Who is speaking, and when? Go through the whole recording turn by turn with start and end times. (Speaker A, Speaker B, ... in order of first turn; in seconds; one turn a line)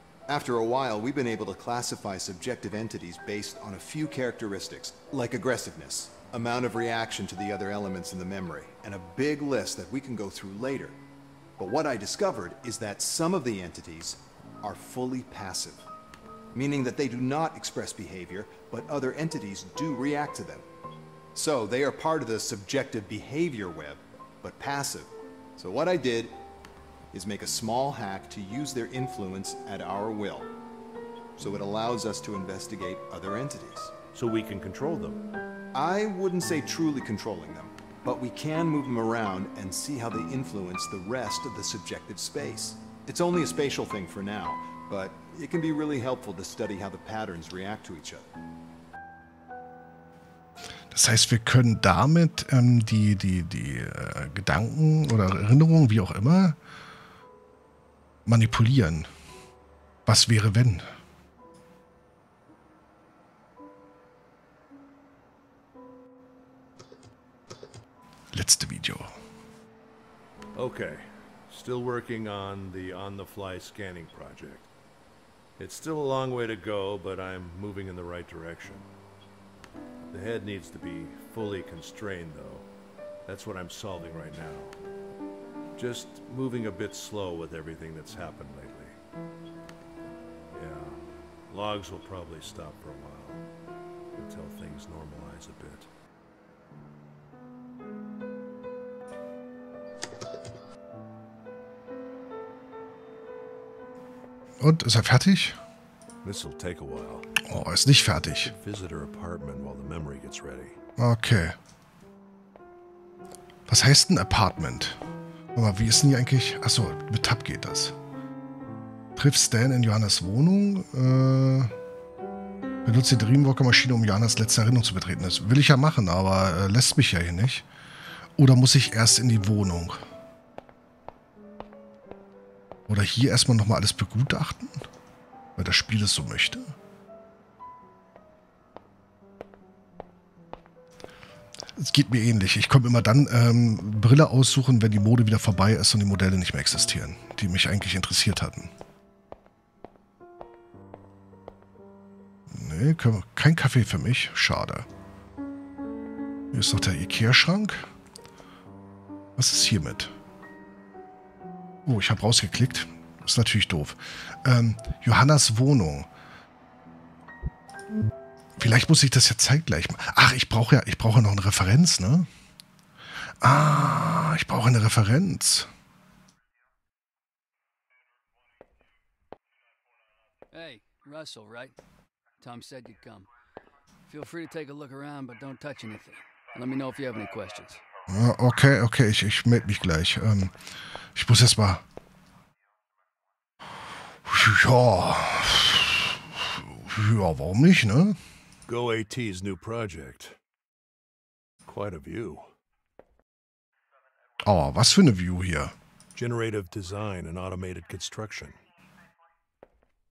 Speaker A: 0.3-11.0
Speaker A: 11.6-15.8
Speaker A: 16.5-20.6
Speaker A: 21.3-26.4
Speaker A: 27.1-30.5
Speaker A: 31.4-33.9
Speaker B: 34.1-35.2
Speaker A: 35.7-48.3
Speaker C: 50.9-56.6
Speaker C: 58.2-59.1
Speaker C: 60.0-60.9
Speaker C: 68.3-69.1
Speaker B: 70.5-74.7
Speaker B: 75.6-78.9
Speaker B: 80.1-82.7
Speaker B: 83.2-84.8
Speaker B: 85.7-89.0
Speaker B: 90.5-93.4
Speaker B: 94.1-95.9
Speaker C: 104.6-105.6
Speaker B: 106.2-107.3
Speaker C: 107.4-108.5
Speaker B: 108.3-110.8
Speaker C: 111.0-111.6
Speaker C: 113.7-115.0
Speaker C: 115.5-117.9
Speaker C: 119.2-121.7
Speaker C: 122.8-127.7
Speaker C: 128.4-130.0
Speaker C: 132.9-134.8
Speaker C: 135.6-136.7
Speaker C: 141.8-148.7
Speaker C: 152.5-154.9
Speaker C: 156.5-157.8
Speaker C: 159.4-160.1
Speaker C: 161.8-166.1
Speaker C: 168.6-172.3
Speaker C: 173.4-175.7
Speaker D: 180.5-181.8
Speaker D: 182.4-183.3
Speaker D: 184.1-187.8
Speaker C: 188.1-190.5
Speaker C: 191.1-191.8
Speaker C: 194.2-198.2
Speaker B: 198.7-200.4
Speaker B: 201.7-202.5
Speaker C: 204.4-205.7
Speaker B: 206.1-208.6